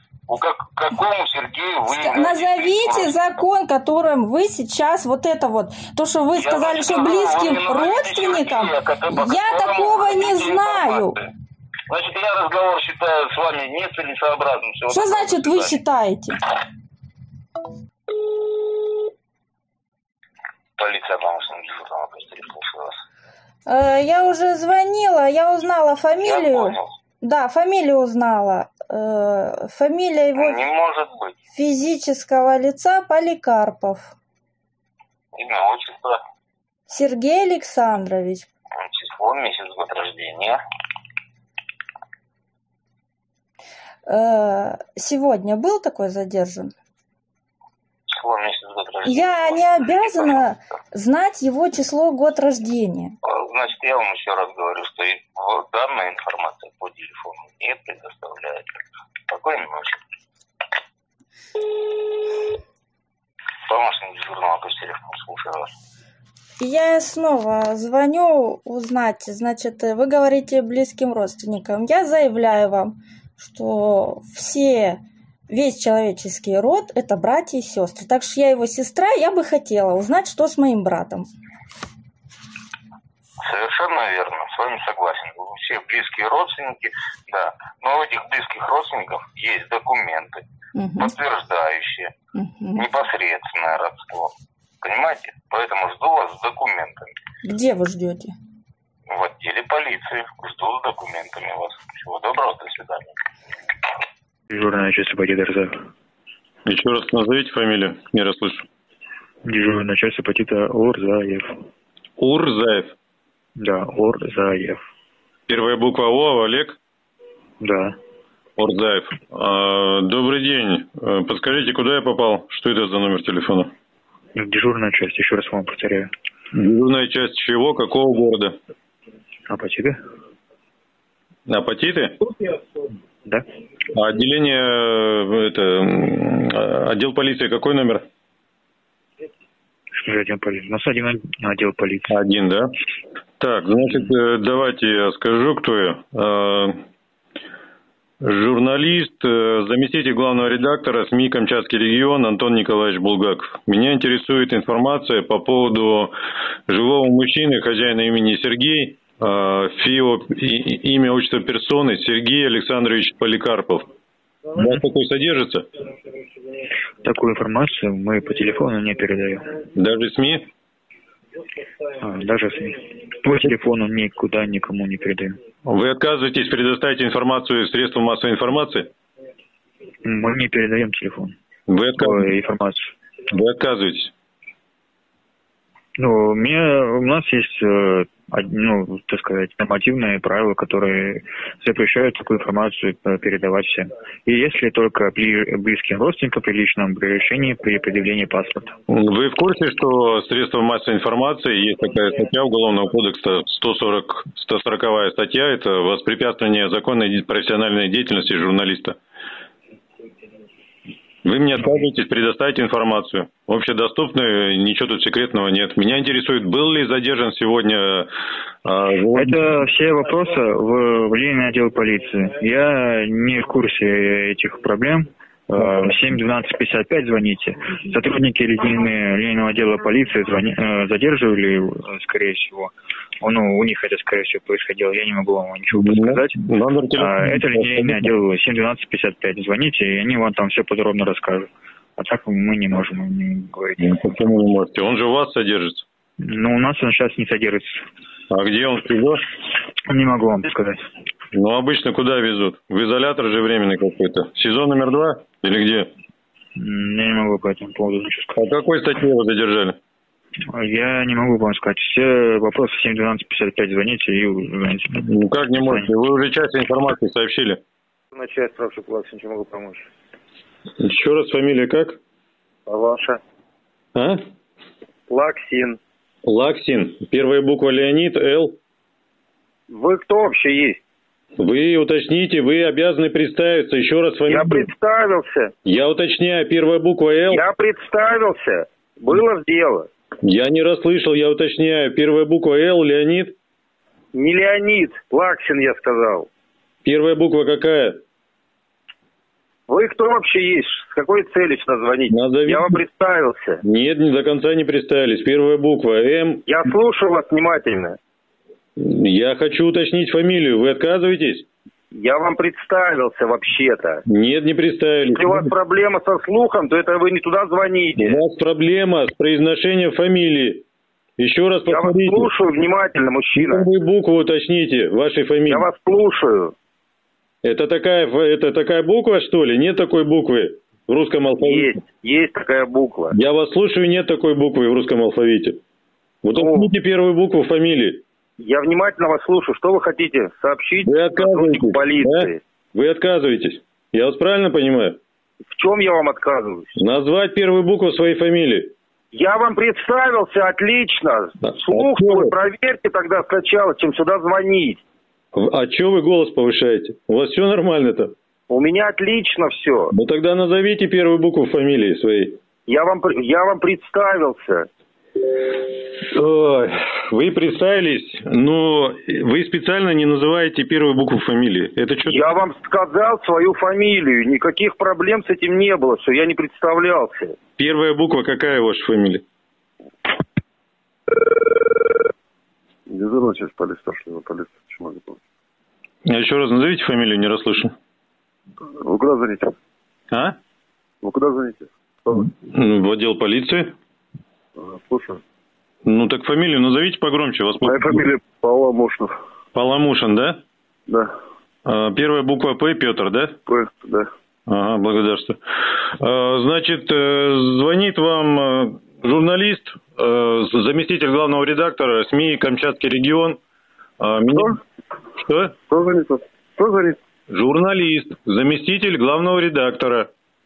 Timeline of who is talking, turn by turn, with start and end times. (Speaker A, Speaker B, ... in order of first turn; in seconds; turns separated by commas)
Speaker A: 0.3-3.2, Speaker B: 1.9-11.2, Speaker A: 6.3-11.2, Speaker A: 11.9-15.8, Speaker B: 14.9-16.4, Speaker A: 20.8-22.9, Speaker B: 23.7-30.6, Speaker A: 26.2-26.8, Speaker A: 30.4-31.4, Speaker B: 31.5-34.1, Speaker A: 35.4-36.2, Speaker B: 36.9-38.5, Speaker A: 38.8-40.6, Speaker B: 44.1-46.7, Speaker A: 48.1-50.5, Speaker B: 49.0-53.1, Speaker A: 53.2-58.7, Speaker A: 59.3-60.0, Speaker A: 63.7-65.7, Speaker B: 66.6-81.3, Speaker A: 83.4-90.4, Speaker B: 90.8-91.1, Speaker A: 91.0-92.2, Speaker B: 92.3-92.9, Speaker A: 92.8-97.1, Speaker B: 97.4-98.3, Speaker A: 99.1-103.1, Speaker C: 104.5-105.8, Speaker D: 106.7-108.7, Speaker C: 109.4-111.5, Speaker D: 112.2-112.9, Speaker C: 113.6-114.8, Speaker D: 115.5-116.8, Speaker C: 117.6-118.0, Speaker D: 118.6-123.7, Speaker C: 124.3-126.1, Speaker D: 126.5-128.6, Speaker C: 129.5-130.0, Speaker D: 131.5-132.2, Speaker D: 133.9-138.1, Speaker C: 140.0-142.2, Speaker D: 142.1-142.7, Speaker D: 143.4-146.8, Speaker D: 148.2-156.1, Speaker D: 156.7-163.9, Speaker D: 164.6-165.7, Speaker C: 167.0-169.6, Speaker D: 169.8-170.4, Speaker C: 172.0-175.4, Speaker D: 175.7-178.9, Speaker C: 180.0-181.3, Speaker D: 181.7-182.3, Speaker C: 182.0-182.9, Speaker D: 183.3-184.1, Speaker C: 186.0-198.7, Speaker D: 198.9-209.0, Speaker D: 211.2-218.1, Speaker D: 218.7-219.6, Speaker C: 219.1-236.3, Speaker D: 235.7-238.2, Speaker C: 237.0-243.9, Speaker D: 243.8-245.8, Speaker C: 246.2-247.8, Speaker D: 248.3-249.2, Speaker C: 249.9-250.8, Speaker D: 251.3-255.9, Speaker C: 256.6-258.4, Speaker D: 258.4-259.8, Speaker C: 260.5-265.0, Speaker D: 265.1-267.6, Speaker E: 268.1-269.9, Speaker D: 270.8-272.0, Speaker E: 272.7-273.2, Speaker E: 275.1-275.8, Speaker D: 276.3-278.6, Speaker E: 279.7-280.8, Speaker D: 281.4-284.7, Speaker E: 284.3-285.5, Speaker D: 285.6-287.4, Speaker E: 287.3-289.9, Speaker D: 290.2-293.4, Speaker E: 294.1-296.3, Speaker D: 296.8-298.0, Speaker E: 299.7-303.6, Speaker D: 302.1-302.7, Speaker D: 303.6-306.4, Speaker E: 306.5-308.0, Speaker D: 308.8-311.5, Speaker E: 311.9-314.0, Speaker D: 314.1-315.5, Speaker E: 315.1-318.2, Speaker D: 318.0-320.6, Speaker D: 321.2-322.3, Speaker E: 321.7-323.7, Speaker D: 323.4-325.7, Speaker E: 325.5-326.5, Speaker D: 327.4-331.7, Speaker E: 331.4-333.1, Speaker D: 333.1-335.6, Speaker D: 336.2-338.0, Speaker E: 336.3-336.7, Speaker E: 338.4-342.4, Speaker D: 340.9-345.0, Speaker E: 345.6-346.8, Speaker D: 346.8-348.7, Speaker E: 349.1-354.8, Speaker D: 351.5-352.3, Speaker D: 355.3-358.1, Speaker E: 358.5-359.9, Speaker D: 359.9-362.4, Speaker E: 362.7-364.7, Speaker D: 366.0-372.3, Speaker E: 372.0-377.4, Speaker D: 377.6-379.2, Speaker F: 382.9-385.2, Speaker D: 386.1-387.7, Speaker F: 388.8-389.5, Speaker F: 391.0-392.3, Speaker D: 392.5-393.8, Speaker F: 394.6-395.2, Speaker D: 395.9-398.0, Speaker F: 397.6-399.1, Speaker D: 399.5-400.4, Speaker D: 401.6-403.4, Speaker F: 403.5-404.1, Speaker D: 404.5-405.4, Speaker D: 406.0-413.4, Speaker D: 414.0-414.6, Speaker D: 415.2-415.6, Speaker F: 415.7-417.0, Speaker D: 417.3-420.1